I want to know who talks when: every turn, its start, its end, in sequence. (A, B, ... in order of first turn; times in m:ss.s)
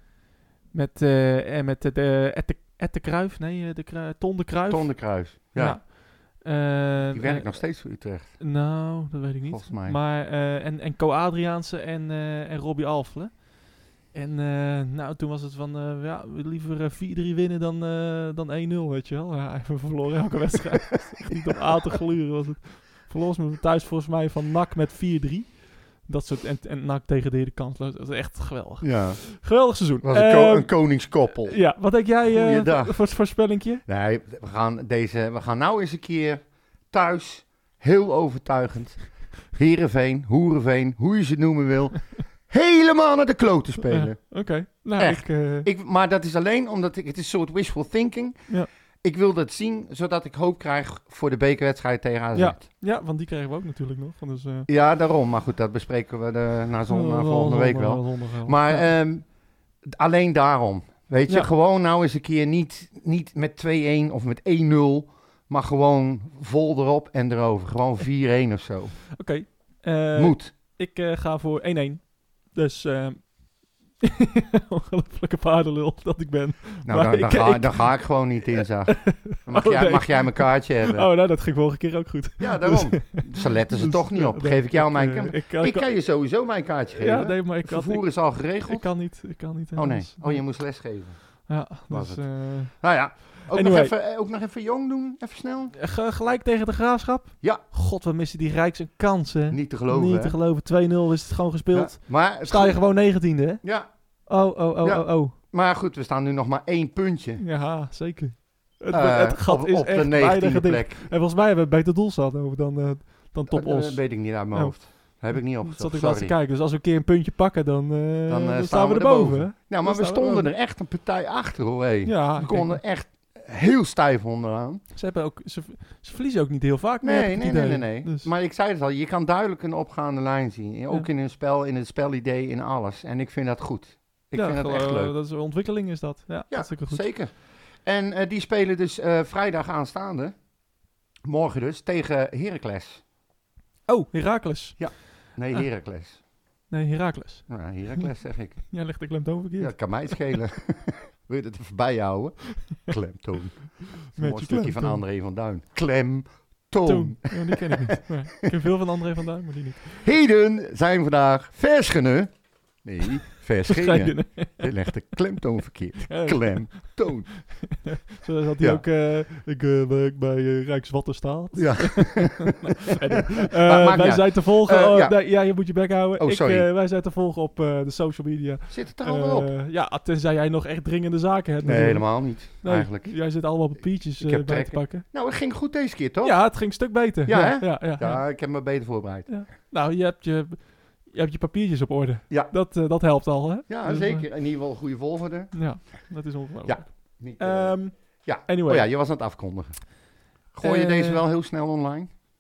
0:00.7-0:33.8 A
0:04.7-0:05.8 B
0:07.1-0:08.5 B
0:09.5-0:10.0 B
0:28.8-0:52.6 B
0:43.9-0:45.7 A
0:52.3-0:54.7 A
0:54.7-1:09.1 B
0:56.9-0:58.9 A
1:09.2-1:26.2 A
1:10.1-1:10.5 B
1:16.8-1:21.1 B
1:22.4-1:35.8 B
1:26.9-1:30.7 A
1:31.3-1:33.9 A
1:35.7-1:45.4 A
1:39.5-1:40.4 B
1:41.7-1:43.0 B
1:43.6-1:47.4 B
1:47.4-2:00.5 A
1:48.9-1:51.1 B
1:53.5-1:56.4 B
1:58.3-2:04.8 B
2:02.0-2:02.8 A
2:04.9-2:08.3 A
2:07.0-2:15.1 B
2:14.3-2:17.1 A
2:16.5-2:20.5 B
2:21.2-2:23.0 B
2:23.8-2:25.6 A
2:24.8-2:26.2 B
2:26.7-2:30.2 A
2:27.5-2:29.0 B
2:29.6-2:38.0 B
2:34.0-2:35.0 A
2:36.8-2:40.0 A
2:40.0-2:47.8 B
2:43.6-2:44.7 A
2:46.1-2:47.1 A
2:47.7-3:05.0 A
2:51.5-2:52.6 B
2:53.5-2:55.6 B
2:56.2-2:56.7 B
2:58.7-2:59.5 B
3:01.6-3:03.6 B
3:04.2-3:09.4 B
3:06.2-3:08.7 A
3:09.2-3:14.3 A
3:13.7-3:16.1 B
3:15.5-3:18.9 A
3:16.6-3:22.2 B
3:20.6-3:21.3 A